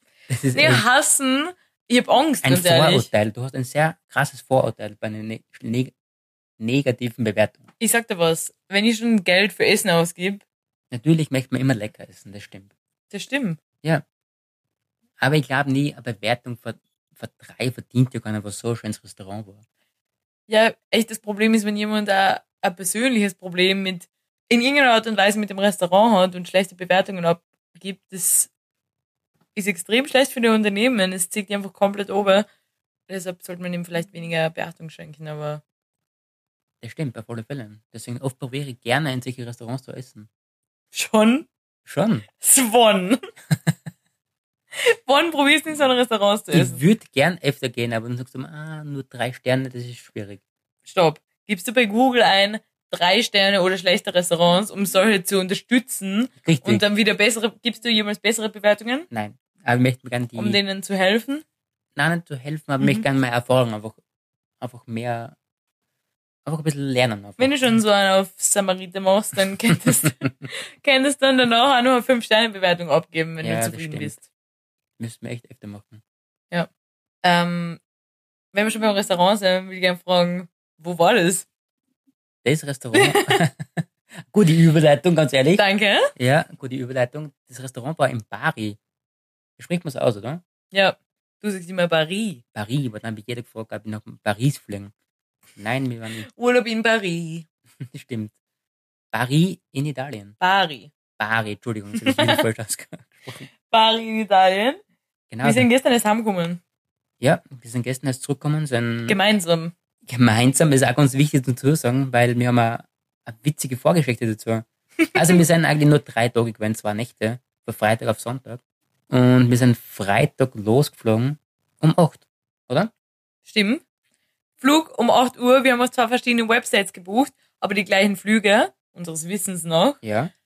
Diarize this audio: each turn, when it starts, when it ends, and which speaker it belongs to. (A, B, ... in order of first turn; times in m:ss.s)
0:00.3-0:00.9 A
0:00.6-0:03.1 B
0:02.4-0:05.9 A
0:06.6-0:07.7 A
0:07.8-0:10.4 B
0:10.9-0:12.7 A
0:13.1-0:13.6 B
0:15.2-0:19.6 A
0:20.5-0:28.5 B
0:29.6-0:32.5 B
0:33.1-0:35.6 B
0:36.8-0:40.3 A
0:40.9-0:41.5 B
0:41.9-0:42.3 A
0:42.4-0:43.2 B
0:44.9-0:46.8 B
0:46.5-0:50.4 A
0:50.9-0:59.1 B
0:56.4-0:56.8 A
0:59.1-1:00.6 A
1:00.4-1:01.4 B
1:02.0-1:04.0 A
1:04.6-1:05.4 A
1:06.5-1:07.5 A
1:07.4-1:14.2 B
1:13.4-1:14.2 A
1:15.0-1:16.0 A
1:17.2-1:17.8 B
1:18.5-1:21.5 B
1:22.4-1:25.6 A
1:22.9-1:23.4 B
1:25.6-1:26.1 B
1:26.2-1:28.8 A
1:29.6-1:30.4 A
1:30.7-1:32.4 B
1:32.6-1:34.9 A
1:35.6-1:36.3 A
1:36.2-1:37.5 B
1:37.8-1:38.3 A
1:39.1-1:40.4 A
1:40.4-1:40.9 B
1:41.2-1:43.5 A
1:42.0-1:42.4 B
1:43.7-1:44.8 B
1:45.3-1:45.7 A
1:45.4-1:46.6 B
1:47.2-1:49.2 A
1:49.1-1:49.7 B
1:50.1-2:02.9 A
1:55.1-1:55.4 B
2:03.5-2:03.8 B
2:04.6-2:10.0 B
2:10.0-2:10.3 A